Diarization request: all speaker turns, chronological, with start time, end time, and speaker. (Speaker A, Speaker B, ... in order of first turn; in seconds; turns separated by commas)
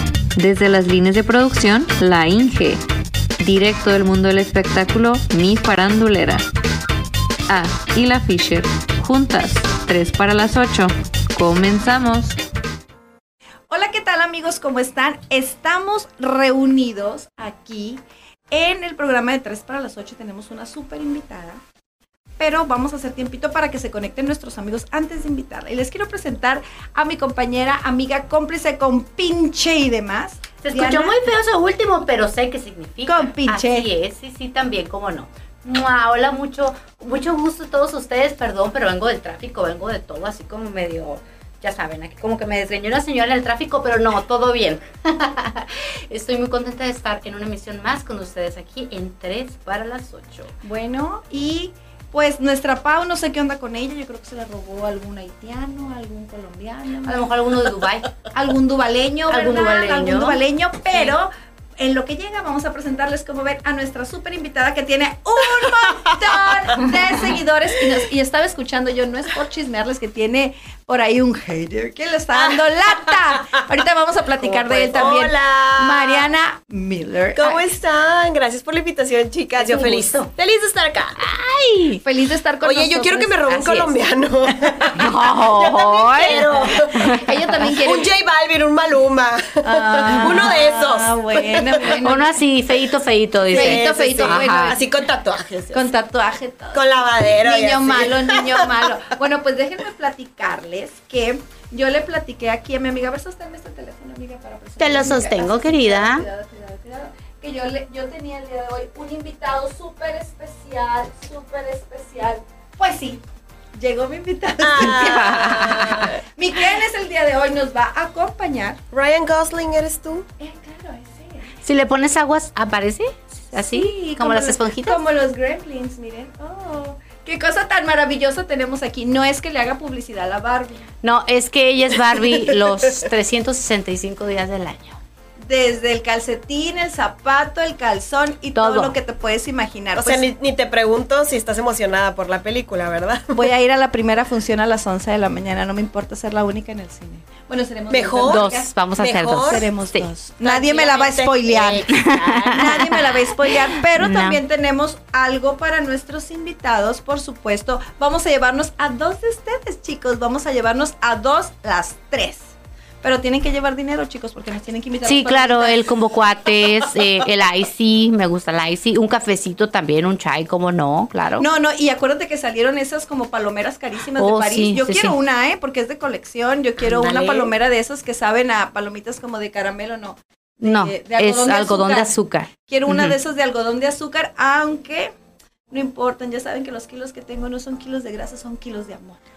Speaker A: 0.3-2.8, Speaker A: 3.4-6.5, Speaker A: 7.5-12.4, Speaker B: 13.7-21.6, Speaker B: 22.4-31.3, Speaker C: 30.6-50.5, Speaker B: 33.0-33.9, Speaker B: 50.6-57.3, Speaker C: 57.0-58.2, Speaker B: 58.3-77.6, Speaker C: 59.3-60.4, Speaker D: 65.6-66.9, Speaker D: 72.3-73.6, Speaker D: 74.4-76.3, Speaker C: 74.9-75.2, Speaker D: 77.3-81.2, Speaker C: 79.6-80.2, Speaker C: 81.2-82.0, Speaker B: 82.0-83.6, Speaker D: 82.6-92.0, Speaker C: 83.5-83.9, Speaker C: 84.9-87.4, Speaker B: 87.1-88.1, Speaker B: 89.6-92.4, Speaker C: 90.1-90.5, Speaker C: 92.0-94.8, Speaker D: 93.5-95.9, Speaker B: 93.5-94.9, Speaker B: 95.7-113.2, Speaker D: 96.7-98.7, Speaker C: 104.8-106.2, Speaker B: 113.8-118.8, Speaker D: 114.6-116.2, Speaker C: 114.9-116.0, Speaker D: 118.9-120.3, Speaker B: 120.4-121.5, Speaker C: 121.6-125.0, Speaker B: 123.5-130.9, Speaker C: 131.0-135.0, Speaker D: 132.1-133.1, Speaker B: 135.4-140.3, Speaker C: 138.6-138.9, Speaker D: 139.9-143.4, Speaker B: 143.3-148.7, Speaker D: 147.9-149.7, Speaker C: 148.2-150.1, Speaker B: 149.4-162.5, Speaker D: 150.4-153.0, Speaker C: 151.9-154.4, Speaker B: 163.0-165.8, Speaker C: 165.1-171.5, Speaker B: 171.4-182.1, Speaker C: 174.2-175.2, Speaker D: 176.8-177.5, Speaker C: 180.6-183.1, Speaker B: 182.7-185.1, Speaker B: 185.7-189.2